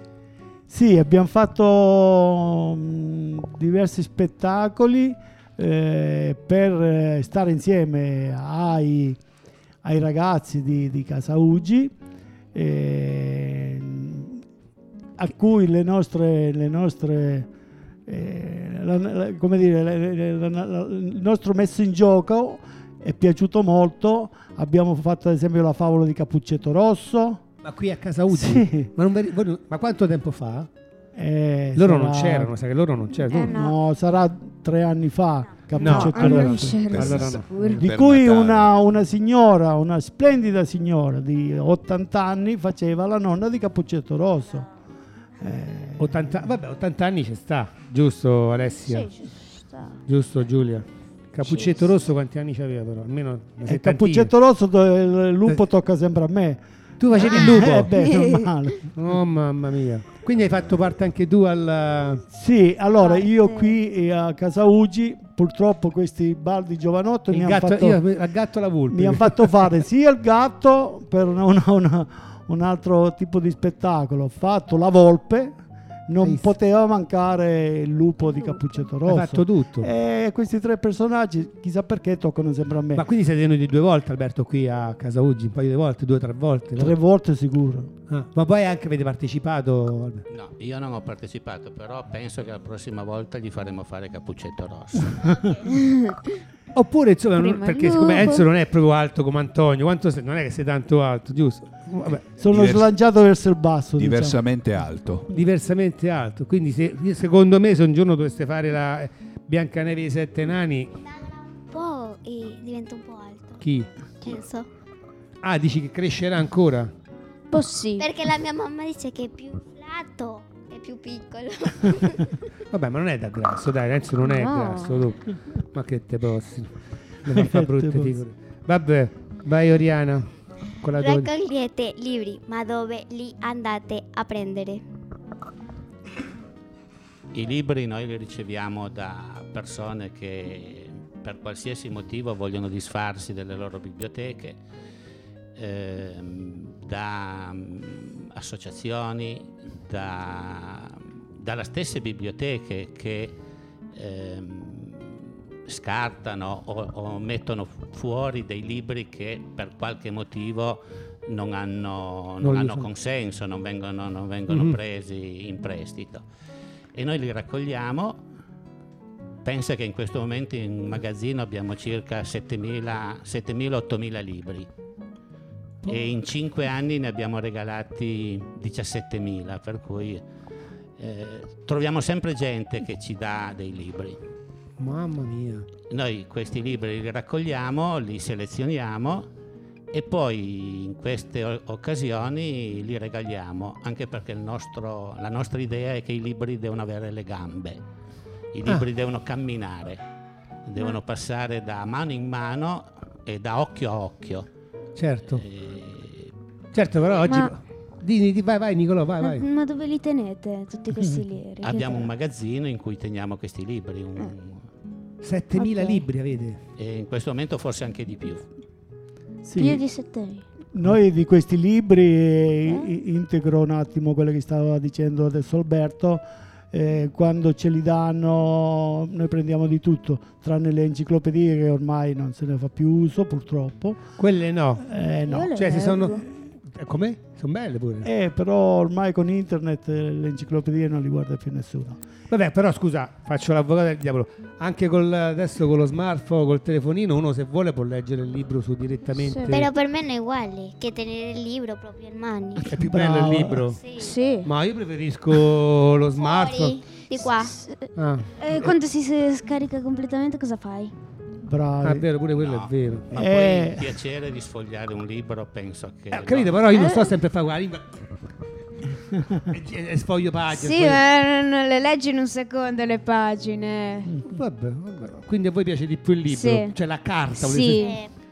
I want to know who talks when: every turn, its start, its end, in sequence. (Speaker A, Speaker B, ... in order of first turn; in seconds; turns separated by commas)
Speaker A: 0.7-9.2, Speaker A: 9.8-11.9, Speaker A: 12.5-14.4, Speaker A: 15.2-17.5, Speaker A: 18.1-27.4, Speaker B: 27.6-30.7, Speaker A: 28.3-28.9, Speaker A: 31.1-32.5, Speaker B: 31.8-33.6, Speaker C: 33.3-33.8, Speaker A: 33.5-36.9, Speaker B: 35.8-37.8, Speaker C: 35.8-37.8, Speaker D: 36.8-38.7, Speaker A: 37.8-44.7, Speaker A: 45.4-46.5, Speaker B: 46.0-49.1, Speaker C: 48.8-50.0, Speaker B: 50.1-54.3, Speaker C: 51.4-51.8, Speaker A: 53.6-56.6, Speaker B: 57.0-58.0, Speaker A: 57.1-58.9, Speaker C: 58.0-58.5, Speaker B: 58.9-62.2, Speaker A: 62.3-68.0, Speaker C: 63.0-63.7, Speaker B: 67.3-69.6, Speaker A: 68.9-83.1, Speaker B: 76.2-76.5, Speaker C: 78.2-78.8, Speaker B: 79.0-79.9, Speaker B: 82.9-87.0, Speaker A: 86.8-87.9, Speaker B: 88.1-90.2, Speaker E: 90.3-95.5, Speaker C: 95.9-96.2, Speaker B: 96.7-102.4, Speaker C: 97.4-98.5, Speaker A: 102.4-104.4, Speaker D: 102.5-102.9, Speaker D: 104.0-105.3, Speaker B: 105.3-110.9, Speaker F: 111.1-113.6, Speaker B: 113.6-113.9, Speaker F: 114.2-114.7, Speaker B: 115.4-116.9, Speaker C: 117.5-118.1, Speaker F: 118.0-122.4, Speaker B: 122.7-126.7, Speaker C: 124.2-125.1, Speaker B: 127.2-130.3, Speaker A: 127.3-128.2, Speaker B: 130.8-131.3, Speaker F: 130.9-134.8, Speaker E: 137.3-144.6, Speaker E: 145.6-153.3, Speaker E: 153.9-166.2, Speaker B: 162.4-162.9, Speaker B: 164.5-164.8, Speaker E: 166.9-168.2, Speaker E: 169.4-174.7, Speaker E: 175.9-180.2, Speaker E: 181.0-184.2, Speaker B: 184.8-185.7, Speaker E: 185.9-189.3, Speaker E: 189.9-197.8, Speaker E: 198.5-200.0, Speaker E: 200.7-204.5, Speaker B: 205.0-205.4, Speaker E: 205.3-206.3, Speaker B: 206.7-209.4, Speaker C: 207.3-207.5, Speaker C: 209.2-212.1, Speaker E: 211.6-214.6, Speaker B: 215.2-216.6, Speaker C: 215.6-216.1, Speaker E: 216.8-218.4, Speaker A: 219.4-219.8, Speaker C: 219.6-220.4, Speaker A: 220.7-234.1, Speaker B: 234.2-234.9, Speaker A: 234.8-235.6, Speaker C: 235.3-236.2, Speaker B: 235.5-238.1, Speaker A: 238.0-242.0, Speaker B: 242.3-249.7, Speaker C: 249.1-249.7, Speaker F: 249.5-252.7, Speaker A: 252.7-253.8, Speaker B: 252.7-253.8, Speaker F: 253.8-254.1, Speaker C: 254.0-254.5, Speaker B: 254.4-256.8, Speaker F: 256.2-257.5, Speaker C: 257.2-260.9, Speaker B: 258.0-258.7, Speaker A: 261.4-262.1, Speaker B: 261.8-263.1, Speaker E: 262.4-266.6, Speaker A: 263.1-263.9, Speaker B: 266.1-268.0, Speaker B: 269.5-271.0, Speaker C: 270.5-274.1, Speaker A: 274.1-274.4, Speaker B: 274.2-278.0, Speaker C: 276.3-276.8, Speaker C: 277.3-278.0, Speaker F: 277.8-278.1